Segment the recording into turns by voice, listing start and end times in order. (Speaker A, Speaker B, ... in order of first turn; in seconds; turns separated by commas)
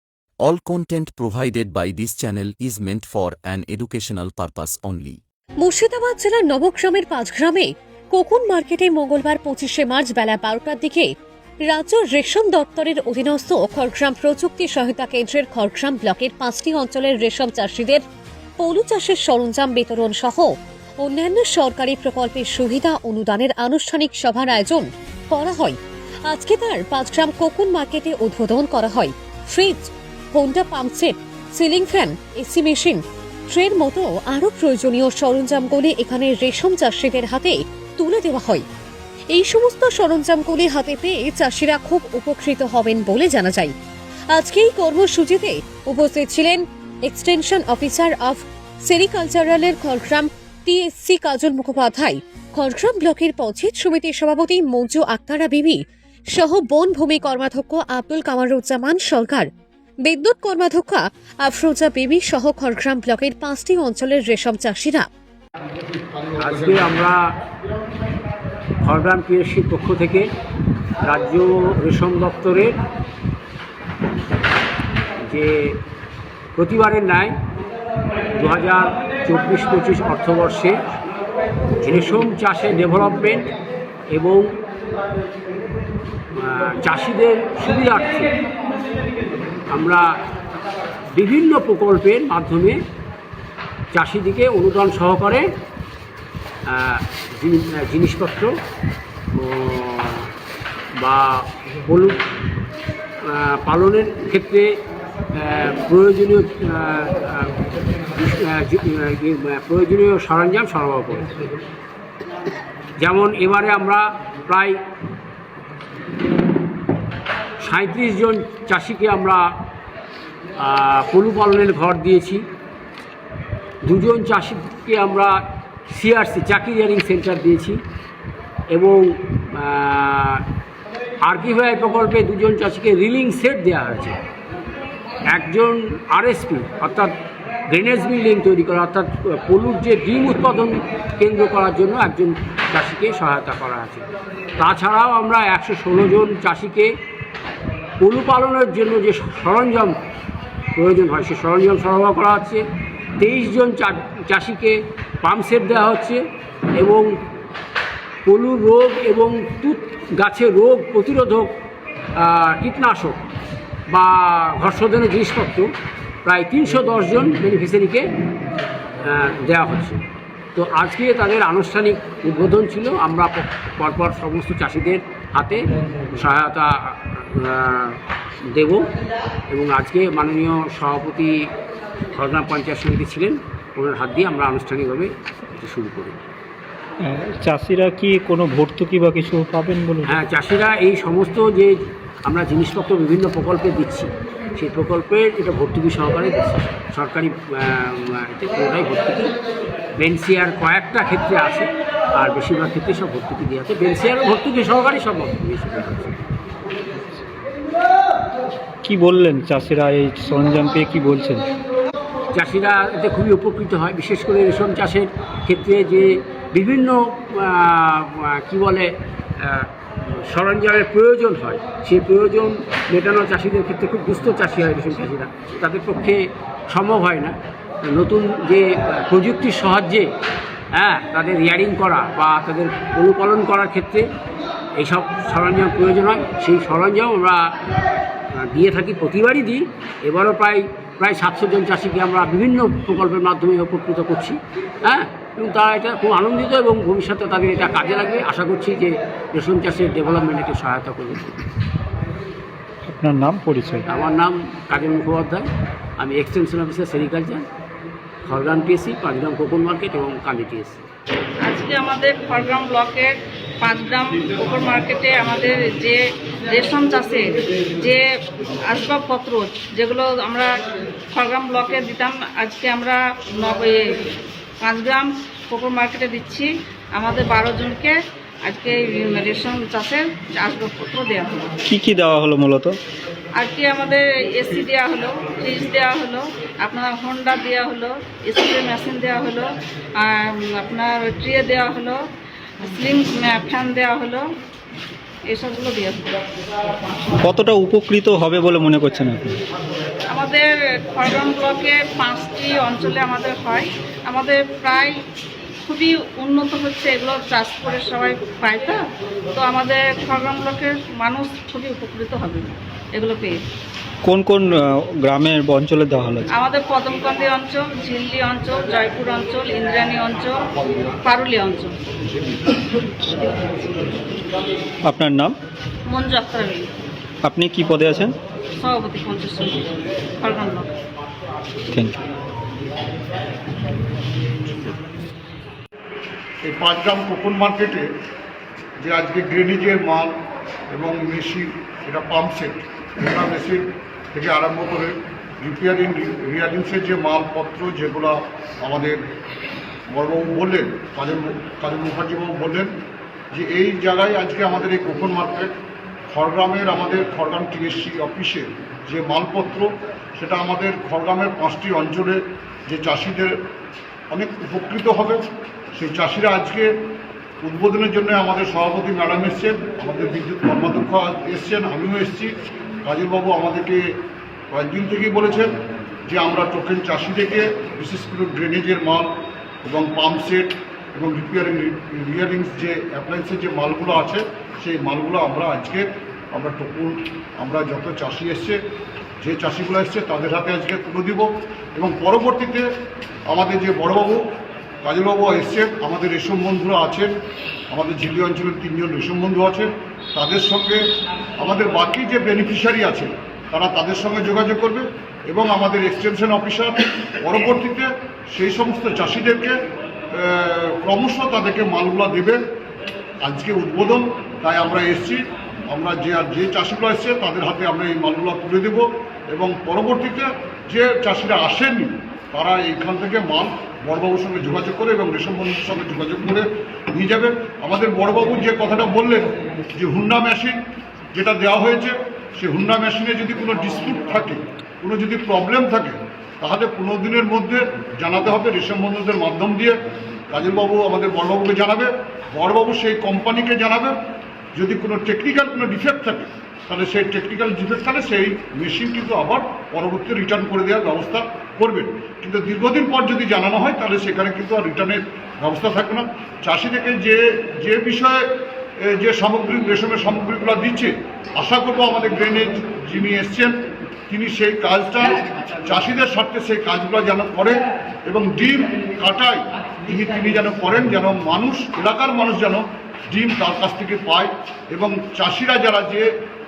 Speaker A: 0.4-1.9, Speaker B: 0.4-5.2, Speaker A: 2.9-11.1, Speaker A: 11.7-18.0, Speaker A: 18.6-25.8, Speaker A: 26.3-33.0, Speaker A: 33.5-38.6, Speaker A: 39.3-43.7, Speaker A: 44.4-55.8, Speaker A: 56.4-59.5, Speaker A: 60.0-65.0, Speaker C: 66.4-67.2, Speaker C: 68.8-70.3, Speaker C: 71.0-72.8, Speaker C: 75.2-75.8, Speaker C: 76.6-77.4, Speaker C: 78.3-80.7, Speaker C: 81.8-83.5, Speaker C: 84.1-84.5, Speaker C: 86.3-88.4, Speaker C: 89.7-90.0, Speaker C: 91.1-92.8, Speaker C: 93.9-95.5, Speaker C: 96.7-98.5, Speaker C: 99.3-100.3, Speaker C: 101.0-102.2, Speaker C: 103.3-104.7, Speaker C: 105.3-107.5, Speaker C: 108.1-111.4, Speaker C: 113.0-114.8, Speaker C: 117.6-119.4, Speaker C: 120.6-122.4, Speaker C: 123.8-125.3, Speaker C: 125.9-127.8, Speaker C: 128.7-130.4, Speaker C: 131.2-134.2, Speaker C: 135.3-137.1, Speaker C: 137.7-144.1, Speaker C: 144.6-146.9, Speaker C: 148.0-149.9, Speaker C: 150.8-152.6, Speaker C: 153.2-156.2, Speaker C: 156.8-157.1, Speaker C: 158.2-161.5, Speaker C: 162.2-163.2, Speaker C: 163.9-165.7, Speaker C: 166.2-168.0, Speaker C: 169.0-170.0, Speaker C: 170.5-178.0, Speaker C: 178.5-178.9, Speaker C: 179.5-181.3, Speaker C: 182.1-186.2, Speaker D: 187.0-190.2, Speaker C: 190.0-199.3, Speaker C: 200.0-206.2, Speaker D: 208.8-211.4, Speaker C: 212.3-219.7, Speaker C: 220.3-230.1, Speaker C: 230.7-234.1, Speaker C: 234.8-237.6, Speaker C: 238.3-251.3, Speaker D: 252.9-253.8, Speaker C: 253.9-255.5, Speaker C: 256.0-257.4, Speaker C: 258.2-260.8, Speaker E: 261.4-268.0, Speaker E: 268.7-270.5, Speaker E: 271.1-274.0, Speaker E: 274.6-281.5, Speaker D: 281.6-282.8, Speaker E: 283.4-292.0, Speaker E: 292.6-294.2, Speaker E: 295.3-296.2, Speaker D: 297.2-299.4, Speaker E: 300.1-304.9, Speaker E: 305.6-308.8, Speaker E: 309.3-313.4, Speaker D: 314.0-316.3, Speaker E: 316.3-321.8, Speaker E: 323.2-323.7, Speaker D: 324.9-325.4, Speaker E: 325.9-326.7, Speaker D: 327.2-328.1, Speaker E: 328.6-330.7, Speaker D: 331.7-332.0, Speaker F: 336.4-337.9, Speaker F: 338.8-340.1, Speaker F: 340.7-349.0, Speaker F: 349.9-352.7, Speaker F: 353.3-355.5, Speaker F: 356.1-363.3, Speaker F: 364.1-365.2, Speaker F: 365.8-366.7, Speaker F: 367.4-372.3, Speaker F: 372.9-373.8, Speaker F: 374.5-375.5, Speaker F: 376.1-379.1, Speaker F: 379.7-388.6, Speaker F: 389.2-392.6, Speaker F: 393.3-394.2, Speaker F: 394.8-397.1, Speaker F: 397.7-400.8, Speaker F: 401.4-409.6, Speaker F: 410.2-412.4, Speaker F: 413.2-415.2, Speaker F: 415.7-426.4, Speaker F: 426.9-430.6, Speaker F: 431.1-439.8, Speaker F: 440.3-443.9, Speaker F: 444.6-458.2, Speaker F: 458.9-463.5, Speaker F: 464.1-476.1